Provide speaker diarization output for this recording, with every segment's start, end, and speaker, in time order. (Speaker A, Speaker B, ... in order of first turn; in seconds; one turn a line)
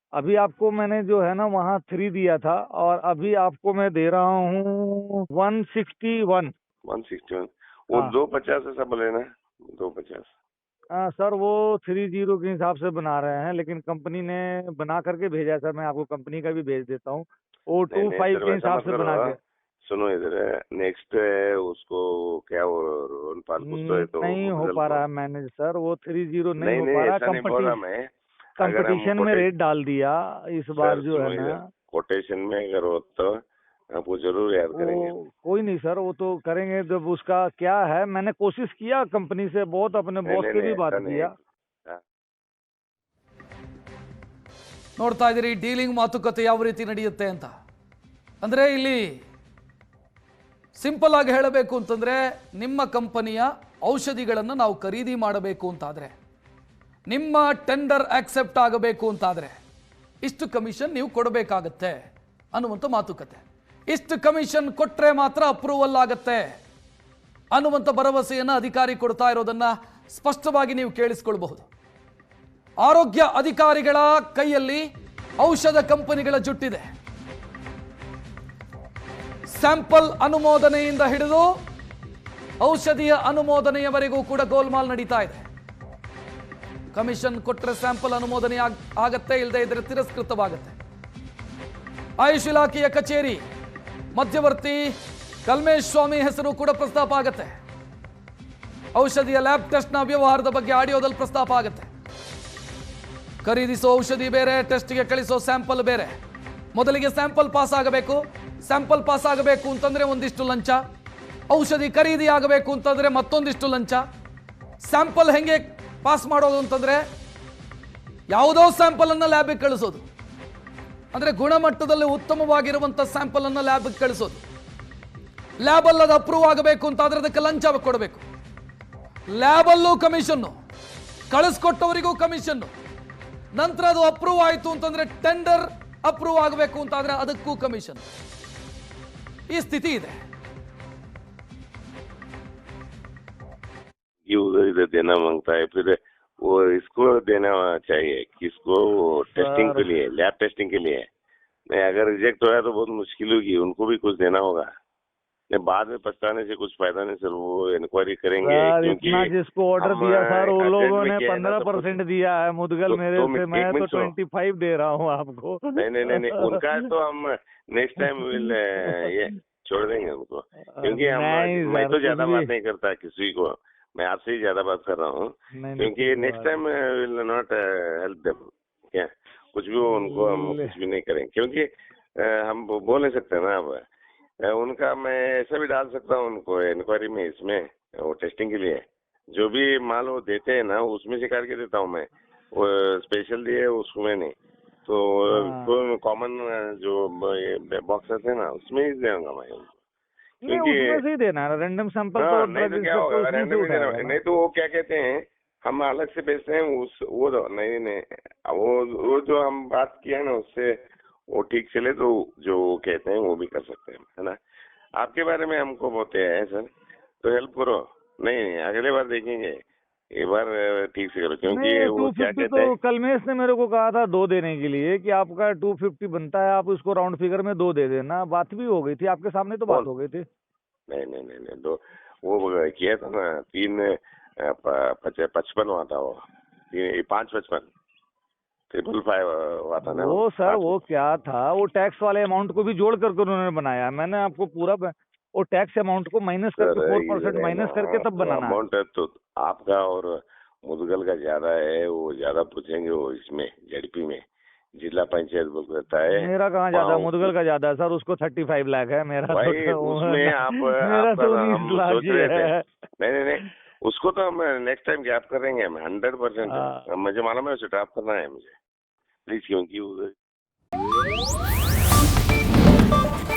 Speaker A: 0.2-6.5
Speaker B: 6.9-10.3
Speaker A: 11.0-19.4
Speaker B: 17.9-19.3
Speaker B: 19.9-25.0
Speaker A: 23.6-27.8
Speaker B: 26.6-28.1
Speaker B: 28.6-29.5
Speaker A: 28.6-31.6
Speaker B: 30.8-33.3
Speaker B: 34.0-35.1
Speaker A: 34.8-41.3
Speaker B: 40.3-41.4
Speaker C: 45.0-47.5
Speaker C: 48.4-49.2
Speaker C: 50.8-56.1
Speaker C: 57.1-59.6
Speaker C: 60.2-62.0
Speaker C: 62.5-66.5
Speaker C: 67.5-71.7
Speaker C: 72.8-74.8
Speaker C: 75.4-76.9
Speaker C: 79.5-81.5
Speaker C: 82.6-85.4
Speaker C: 86.9-90.8
Speaker C: 92.2-93.4
Speaker C: 94.2-94.8
Speaker C: 95.5-97.6
Speaker C: 99.0-101.9
Speaker C: 103.4-106.2
Speaker C: 106.8-110.8
Speaker C: 111.5-114.0
Speaker C: 114.8-117.0
Speaker C: 118.3-120.0
Speaker C: 121.1-124.4
Speaker C: 125.6-128.2
Speaker C: 129.3-130.5
Speaker C: 131.3-132.7
Speaker C: 133.6-138.0
Speaker C: 139.5-140.2
Speaker B: 144.3-151.1
Speaker A: 149.4-149.9
Speaker B: 151.7-154.7
Speaker B: 155.5-162.0
Speaker A: 158.4-166.7
Speaker B: 162.9-164.1
Speaker B: 165.8-181.7
Speaker A: 168.2-169.0
Speaker A: 170.7-172.5
Speaker A: 175.6-176.6
Speaker A: 179.9-180.8
Speaker B: 182.2-183.8
Speaker B: 184.5-188.8
Speaker B: 189.3-194.3
Speaker B: 194.9-199.8
Speaker A: 195.3-195.7
Speaker A: 200.4-204.2
Speaker B: 200.5-201.0
Speaker B: 202.2-210.7
Speaker B: 211.3-214.4
Speaker B: 215.0-216.7
Speaker B: 217.2-219.6
Speaker B: 220.2-222.7
Speaker A: 221.5-230.2
Speaker B: 230.9-236.2
Speaker B: 236.7-237.7
Speaker B: 238.7-240.8
Speaker A: 239.8-248.6
Speaker B: 246.6-250.1
Speaker B: 250.7-254.2
Speaker B: 254.8-257.3
Speaker A: 256.1-262.7
Speaker B: 259.3-268.6
Speaker A: 266.5-266.9
Speaker B: 269.3-270.1